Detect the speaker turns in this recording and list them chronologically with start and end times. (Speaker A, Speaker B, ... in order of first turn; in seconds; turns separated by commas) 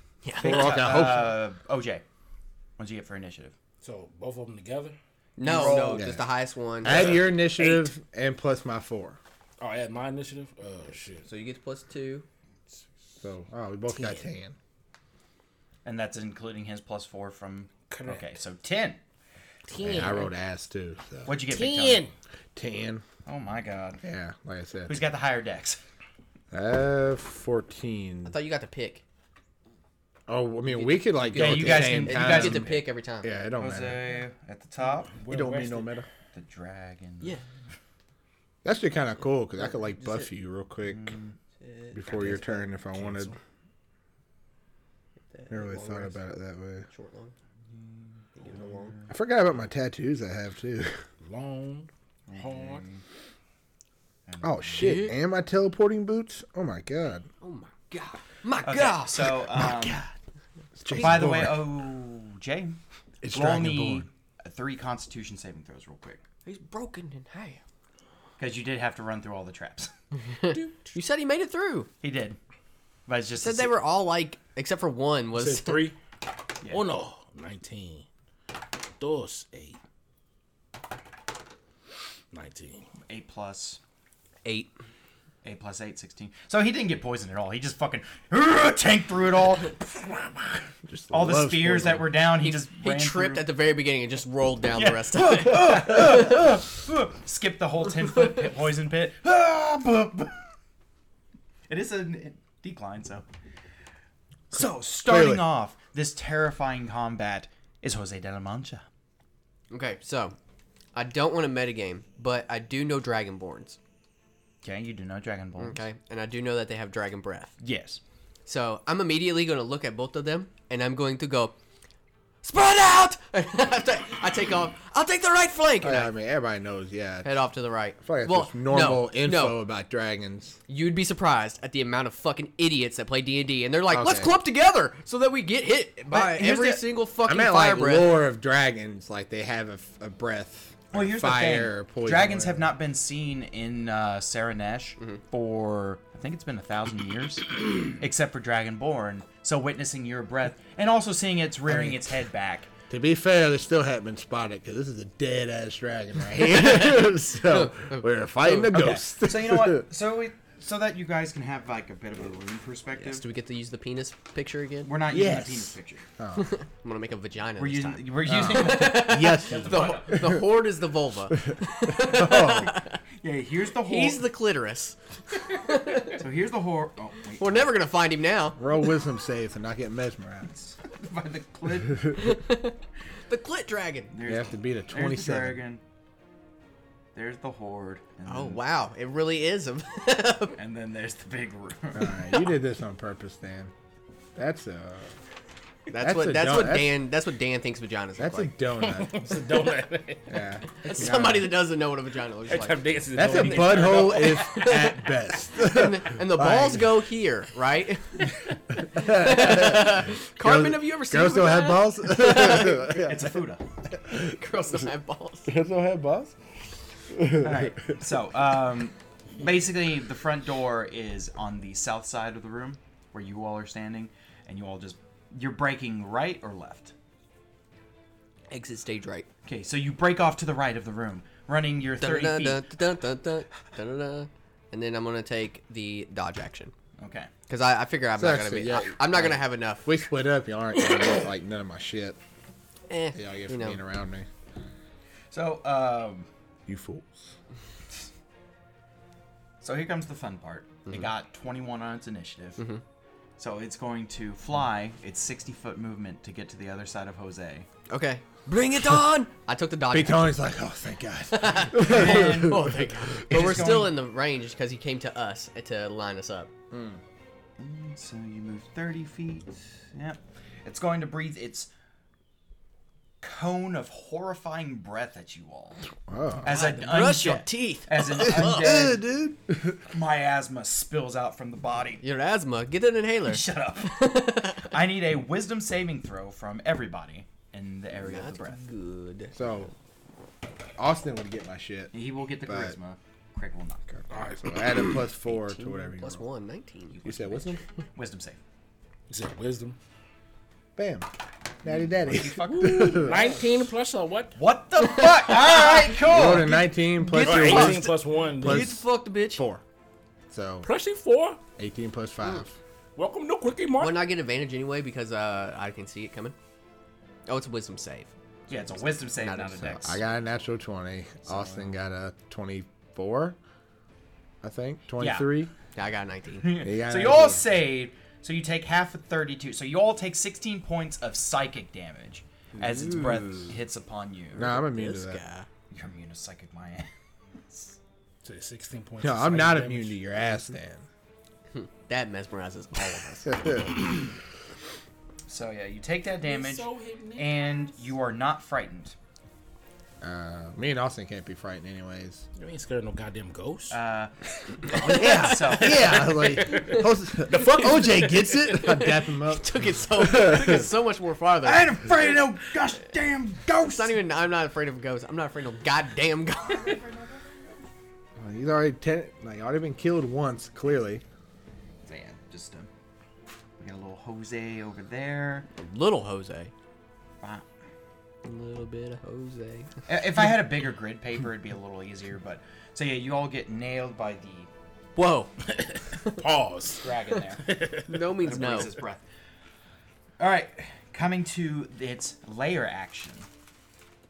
Speaker A: 0.2-0.8, Speaker B: 0.3-1.4, Speaker C: 0.4-2.0, Speaker C: 2.8-3.5, Speaker D: 3.8-5.0, Speaker A: 5.4-7.7, Speaker C: 5.4-6.1, Speaker B: 5.9-6.2, Speaker B: 6.8-9.2, Speaker D: 6.8-7.3, Speaker D: 9.6-11.3, Speaker A: 11.2-12.2, Speaker B: 13.2-14.6, Speaker C: 15.8-19.0, Speaker D: 17.9-18.3, Speaker A: 19.7-20.2, Speaker D: 19.7-20.2, Speaker B: 19.8-21.4, Speaker C: 21.2-22.1, Speaker A: 21.5-22.1, Speaker B: 22.5-23.0, Speaker C: 23.2-24.0, Speaker B: 24.0-25.0, Speaker C: 24.9-25.8, Speaker B: 26.5-28.3, Speaker A: 28.2-29.0, Speaker B: 30.3-34.2, Speaker A: 30.7-33.3, Speaker C: 31.3-32.8, Speaker C: 33.6-35.1, Speaker D: 35.1-35.9, Speaker B: 35.3-36.1, Speaker C: 36.3-37.4, Speaker B: 38.6-41.1, Speaker A: 39.6-40.3, Speaker C: 40.8-41.4, Speaker A: 41.6-42.7, Speaker B: 41.9-43.3, Speaker D: 42.1-43.4, Speaker A: 45.3-46.2, Speaker B: 45.5-46.9, Speaker A: 46.9-47.3, Speaker C: 47.7-49.1, Speaker A: 48.4-48.9, Speaker B: 49.1-51.0, Speaker D: 51.2-52.8, Speaker C: 52.3-53.0, Speaker C: 54.3-55.0, Speaker B: 54.4-57.2, Speaker A: 54.8-55.1, Speaker A: 57.4-59.3, Speaker C: 58.6-60.0, Speaker B: 59.4-60.1, Speaker B: 60.8-61.7, Speaker C: 60.9-62.8, Speaker B: 63.2-64.0, Speaker C: 63.3-66.2, Speaker A: 66.4-67.6, Speaker C: 68.4-69.9, Speaker A: 70.3-71.9, Speaker C: 72.0-72.4, Speaker C: 73.1-73.7, Speaker A: 73.4-75.9, Speaker D: 75.3-76.0, Speaker D: 76.7-78.1, Speaker D: 79.0-79.8, Speaker D: 82.3-82.9, Speaker C: 83.1-83.8, Speaker A: 84.4-84.7, Speaker C: 85.4-89.8, Speaker D: 90.0-90.5, Speaker B: 90.9-92.1, Speaker C: 91.1-93.5, Speaker A: 92.4-96.3, Speaker C: 94.7-100.4, Speaker C: 101.7-103.2, Speaker C: 104.5-108.8, Speaker B: 104.5-105.5, Speaker A: 109.7-110.3, Speaker A: 110.9-113.8, Speaker C: 114.6-115.8, Speaker A: 115.6-117.5, Speaker C: 117.6-118.0, Speaker A: 118.5-121.5, Speaker A: 122.4-126.1, Speaker B: 125.8-127.3, Speaker A: 127.2-129.6, Speaker B: 128.0-130.6, Speaker A: 130.7-138.2, Speaker B: 133.9-134.3, Speaker C: 136.1-136.8, Speaker B: 137.2-142.7, Speaker C: 140.9-152.7, Speaker B: 151.7-152.2, Speaker B: 152.9-159.8, Speaker A: 156.5-158.6, Speaker C: 158.6-163.2, Speaker A: 163.0-164.9, Speaker C: 164.8-166.0, Speaker B: 165.1-166.5, Speaker A: 166.3-173.0, Speaker C: 167.6-170.3, Speaker B: 168.2-170.4, Speaker D: 169.5-169.8, Speaker B: 171.4-172.8, Speaker C: 172.2-172.5, Speaker C: 173.2-174.2, Speaker A: 173.8-176.2, Speaker C: 176.0-177.7, Speaker A: 177.4-178.6, Speaker B: 178.6-180.5, Speaker C: 180.6-182.2, Speaker A: 182.1-184.1, Speaker C: 184.1-185.8, Speaker B: 184.2-185.6, Speaker C: 187.1-188.6, Speaker A: 188.2-190.6, Speaker C: 190.6-192.4, Speaker B: 191.9-193.7, Speaker B: 194.3-195.1, Speaker A: 195.9-198.6, Speaker B: 195.9-196.9, Speaker B: 198.2-199.3, Speaker D: 198.8-200.4, Speaker B: 200.3-201.4, Speaker A: 200.8-202.8, Speaker C: 200.9-201.4, Speaker D: 202.5-204.7, Speaker B: 203.1-206.9, Speaker A: 203.3-208.3, Speaker B: 208.9-213.3, Speaker A: 208.9-213.0, Speaker C: 212.7-213.6, Speaker A: 214.1-215.5, Speaker B: 215.5-216.3, Speaker B: 217.1-217.8, Speaker C: 217.4-226.9, Speaker A: 228.5-229.3, Speaker C: 229.4-232.6, Speaker A: 232.0-236.7, Speaker C: 237.0-237.3, Speaker A: 237.5-239.9, Speaker B: 238.2-242.2, Speaker A: 242.9-243.8, Speaker B: 243.1-244.3, Speaker C: 245.3-246.3, Speaker B: 246.7-247.3, Speaker C: 249.6-252.6, Speaker C: 253.4-257.7, Speaker A: 257.9-260.4, Speaker B: 259.9-263.7, Speaker A: 261.3-266.5, Speaker C: 261.7-263.9, Speaker B: 266.7-267.0, Speaker C: 267.6-271.7, Speaker C: 273.2-275.8, Speaker B: 276.1-276.6, Speaker C: 276.4-279.1, Speaker A: 276.4-278.9, Speaker B: 278.1-279.8, Speaker C: 279.9-282.0, Speaker A: 282.0-284.7, Speaker C: 283.2-288.6, Speaker A: 288.0-289.7, Speaker B: 289.3-289.7, Speaker B: 290.8-291.9, Speaker C: 291.9-293.9, Speaker B: 292.4-292.8, Speaker B: 293.9-296.2, Speaker D: 294.1-294.5, Speaker A: 295.2-297.1, Speaker C: 296.9-298.4, Speaker B: 297.0-297.6, Speaker D: 299.1-299.8, Speaker B: 300.8-301.1, Speaker B: 301.6-303.2, Speaker C: 301.7-303.2, Speaker D: 302.5-304.4, Speaker C: 304.4-307.8, Speaker A: 304.8-305.9, Speaker B: 306.0-309.6, Speaker D: 307.2-308.8, Speaker A: 307.4-307.7, Speaker A: 308.4-309.4, Speaker B: 310.3-310.7, Speaker D: 310.6-311.4, Speaker B: 311.6-312.6, Speaker D: 312.9-314.0, Speaker A: 313.8-316.4, Speaker A: 317.2-318.1, Speaker C: 318.5-320.0, Speaker A: 319.1-319.8, Speaker B: 319.7-323.4, Speaker C: 321.2-321.8, Speaker B: 324.4-325.5, Speaker C: 325.0-325.3, Speaker A: 325.7-326.5, Speaker C: 326.4-334.6, Speaker B: 326.6-327.4, Speaker A: 332.5-333.6, Speaker B: 334.3-335.2, Speaker A: 334.4-335.5, Speaker C: 335.7-336.9, Speaker C: 337.4-337.8, Speaker D: 338.2-340.4, Speaker B: 339.0-340.9, Speaker A: 341.5-343.7, Speaker B: 343.2-343.7, Speaker C: 345.3-348.9, Speaker D: 346.2-347.9, Speaker B: 350.0-352.2, Speaker D: 352.4-353.8, Speaker C: 353.7-356.1, Speaker A: 354.7-355.6, Speaker B: 354.8-360.6, Speaker D: 355.7-358.8, Speaker A: 356.5-356.8, Speaker A: 358.9-361.7, Speaker C: 361.4-364.0, Speaker A: 363.6-366.8, Speaker C: 366.6-367.1, Speaker B: 368.2-371.0, Speaker C: 371.8-372.7, Speaker C: 373.6-375.5, Speaker A: 375.6-376.5, Speaker A: 378.2-379.7, Speaker C: 379.9-384.5, Speaker A: 384.9-385.3, Speaker D: 385.4-388.4, Speaker C: 386.8-387.5, Speaker A: 387.9-388.7, Speaker C: 388.2-389.0, Speaker C: 390.2-393.3